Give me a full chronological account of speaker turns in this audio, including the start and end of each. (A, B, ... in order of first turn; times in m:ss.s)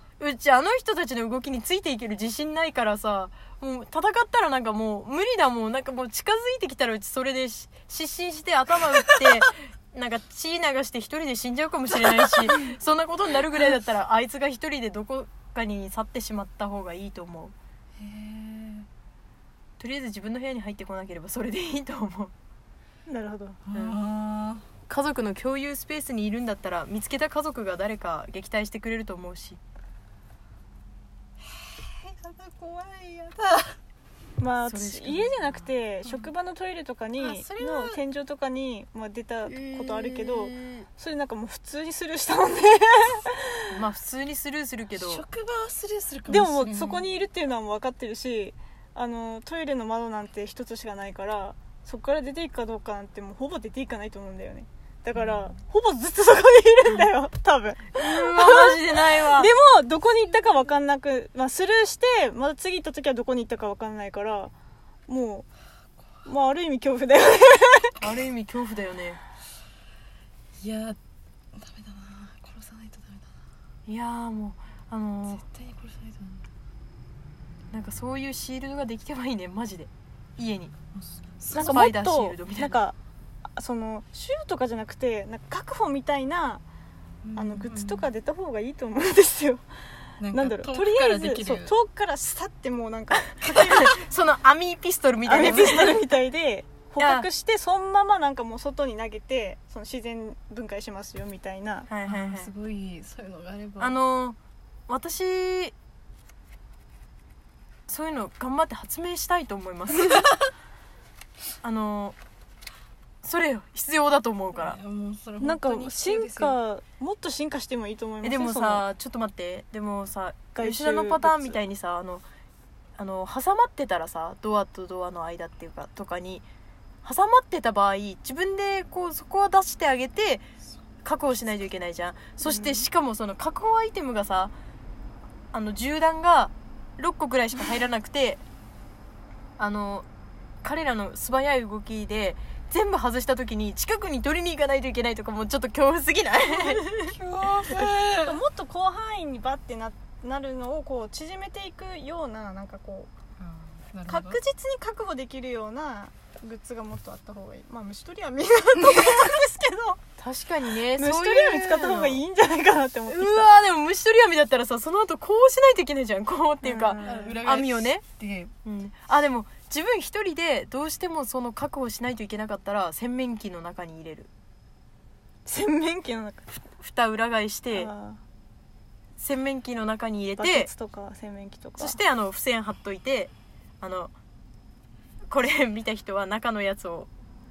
0:00.2-0:17.5 A
0:18.0-0:18.9 B
0:19.8-0:22.3 A
0:23.1-0:23.6 C
0:23.7-0:24.6 B
0:23.7-0:24.0 A
0:24.9-0:29.6 A
0:31.6-0:33.8 B
0:34.4-0:43.8 C
0:34.7-0:35.7 A
0:37.2-0:38.0 B
0:39.5-0:40.9 A
0:43.7-0:45.2 A
0:44.9-0:47.0 B
0:46.3-1:04.5 C
0:58.0-0:59.5 A
1:05.1-1:05.5 C
1:06.2-1:08.0 C
1:08.0-1:09.2 A
1:10.6-1:11.0 B
1:11.6-1:13.3 B
1:13.9-1:15.4 A
1:15.3-1:16.4 B
1:17.7-1:20.7 A
1:21.0-1:21.9 B
1:21.5-1:23.0 C
1:21.5-1:22.8 A
1:23.5-1:26.6 C
1:27.2-1:28.1 B
1:27.4-1:29.6 C
1:30.2-1:31.8 B
1:30.3-1:34.0 C
1:33.5-1:36.0 A
1:35.2-1:41.9 C
1:35.4-1:35.9 B
1:37.0-1:37.3 A
1:41.9-1:42.5 A
1:42.0-1:44.0 B
1:43.8-1:44.4 A
1:44.9-1:45.8 A
1:47.9-1:50.3 A
1:51.6-1:52.2 A
1:53.2-1:54.8 A
1:54.5-1:56.6 B
1:55.4-1:58.8 C
1:58.2-2:02.3 A
2:00.6-2:01.6 C
2:03.0-2:06.4 A
2:07.0-2:10.4 A
2:11.0-2:14.5 A
2:12.4-2:12.8 C
2:15.5-2:18.4 A
2:19.6-2:20.1 A
2:20.6-2:27.2 A
2:27.0-2:28.4 B
2:28.2-2:33.1 C
2:33.4-2:34.4 B
2:34.1-2:40.0 C
2:38.8-2:39.3 B
2:40.2-2:42.2 A
2:41.0-2:43.5 C
2:43.1-2:48.0 A
2:46.6-2:47.4 C
2:47.0-2:48.5 B
2:48.6-2:54.3 A
2:55.5-2:56.6 C
2:56.8-2:57.9 A
2:57.7-2:58.2 C
2:59.2-3:00.7 A
3:00.4-3:02.0 C
3:01.8-3:04.1 A
3:05.3-3:07.1 A